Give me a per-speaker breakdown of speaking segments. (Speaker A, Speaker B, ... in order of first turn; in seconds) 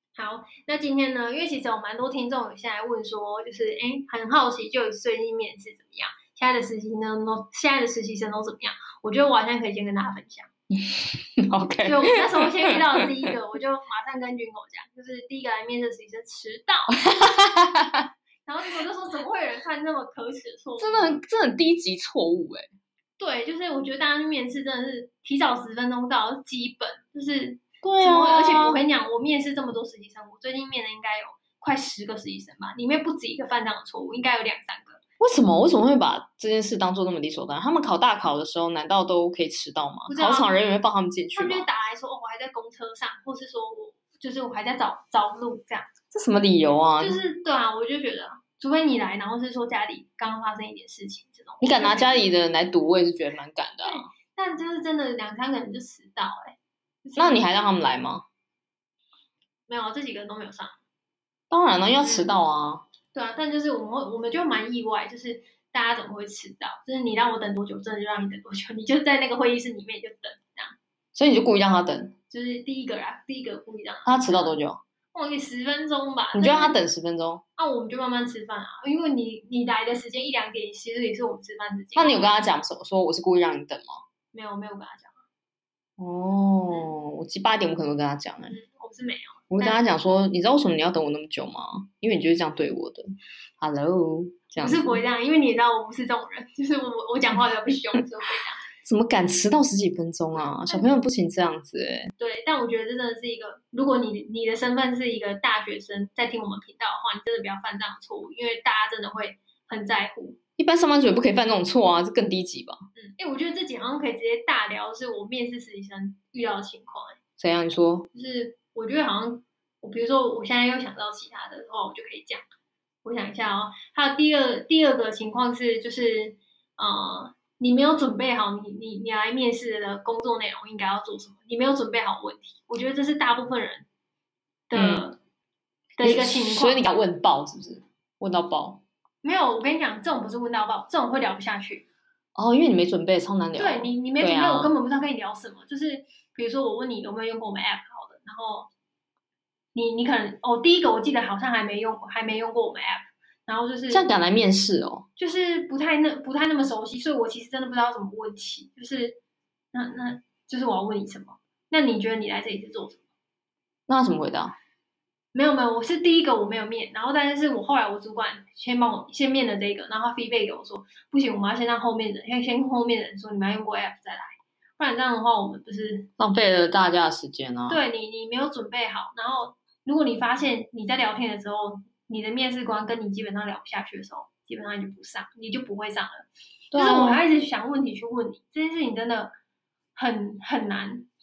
Speaker A: 0.1-10.5, 11.8-17.0, 18.4-21.2, 23.2-35.0, 40.1-40.5, 41.3-45.9, 47.0-52.3, 53.9-57.4, 59.7-60.8, 62.0-62.3, 63.1-70.8, 72.3-74.6, 75.1-76.8, 77.6-82.4, 84.3-85.2, 88.5-89.8, 94.6-98.6, 100.4-101.0, 102.2-110.4, 113.0-117.2, 118.1-122.4, 123.0-133.9, 134.7-135.2, 136.0-136.8, 139.2-141.8, 143.6-148.7, 149.8-154.1, 155.2-159.2, 159.7-163.0, 165.3-176.1, 177.7-189.3, 189.9-191.1
Speaker B: 10.7-13.3, 17.0-18.1, 20.8-22.7, 27.8-28.8, 35.2-41.7, 46.1-47.2, 51.6-54.1, 57.2-58.2, 61.5-62.8, 71.1-72.2, 74.1-74.8, 76.3-77.4, 82.0-84.0, 86.0-88.5, 89.5-93.1, 93.6-95.0, 98.8-102.1, 110.6-112.8, 117.4-118.1, 134.8-135.1, 136.0-138.8, 142.3-144.7, 153.9-155.1, 163.9-164.6, 176.2-177.8, 186.7-187.2